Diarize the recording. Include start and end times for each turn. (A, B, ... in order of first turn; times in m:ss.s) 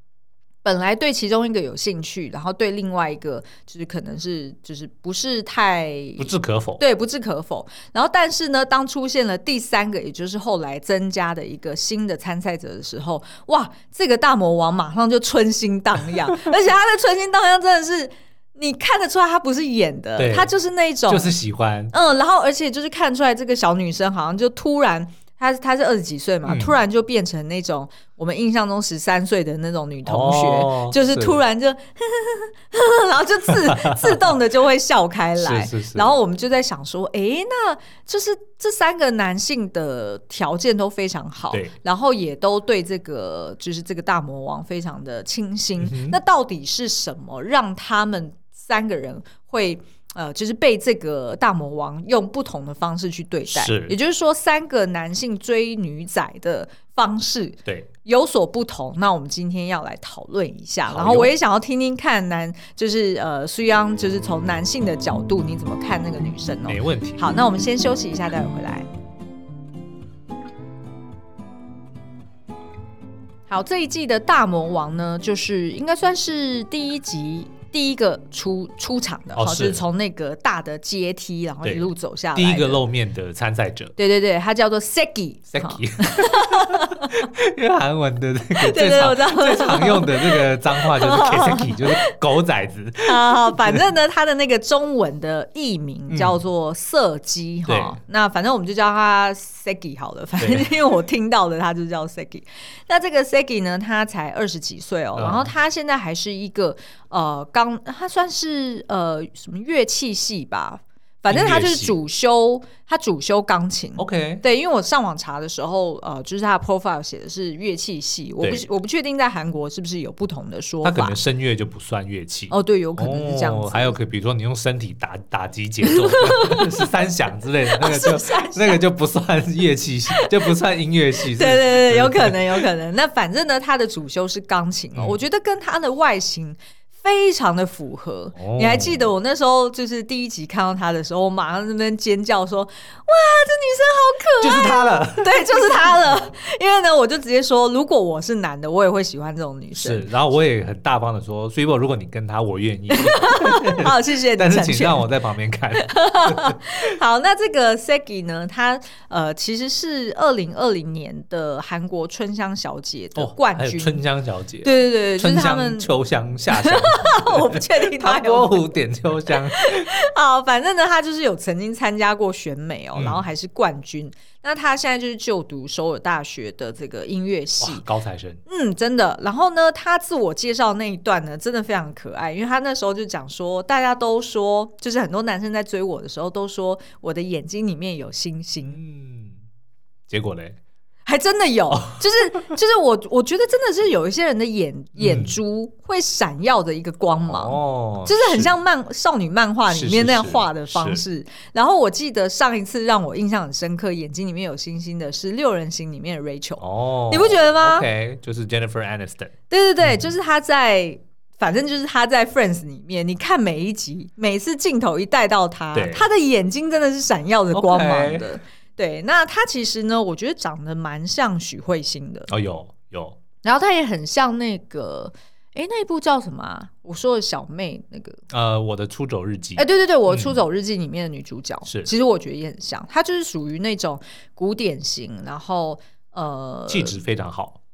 0:00.6-0:21.3 A
0:06.2-0:06.8 B
0:20.2-0:20.5 B
0:21.1-0:21.9 B
0:21.9-1:08.9 A
0:26.4-0:26.7 B
0:30.0-0:31.4 B
0:33.5-0:34.3 B
0:35.4-0:36.1 B
0:45.8-0:46.2 B
0:53.5-0:54.0 B
1:00.9-1:01.3 B
1:06.7-1:07.3 B
1:13.5-1:22.8 A
1:19.3-1:19.8 B
1:21.6-1:23.9 B
1:24.0-1:27.2 A
1:25.5-1:33.8 B
1:28.6-1:32.1 A
1:33.0-2:01.2 A
1:36.1-1:36.4 B
1:37.7-1:38.0 B
1:40.4-1:40.7 B
1:45.2-1:45.5 B
1:51.3-1:52.0 B
1:54.0-1:54.4 B
2:00.8-2:12.6 B
2:02.5-2:04.0 A
2:05.9-2:06.7 A
2:07.7-2:08.8 A
2:11.3-2:30.1 A
2:18.3-2:19.1 B
2:24.4-2:26.0 B
2:29.7-2:36.6 B
2:32.9-2:35.0 A
2:35.8-2:44.0 A
2:43.2-2:49.9 B
2:44.6-2:45.9 A
2:46.5-2:48.7 A
2:49.5-2:57.8 A
2:53.0-2:53.2 B
2:57.6-2:58.4 B
2:58.5-3:08.8 A
3:08.7-3:09.4 B
3:10.1-3:10.6 B
3:11.0-3:27.8 A
3:15.0-3:15.4 B
3:17.2-3:18.5 B
3:19.7-3:21.0 B
3:26.6-3:30.1 B
3:29.5-3:42.3 A
3:35.7-3:36.0 B
3:37.5-3:38.3 B
3:42.3-3:43.2 B
3:43.4-3:48.2 A
3:48.3-3:50.3 B
3:49.6-3:57.0 A
3:56.7-3:57.6 B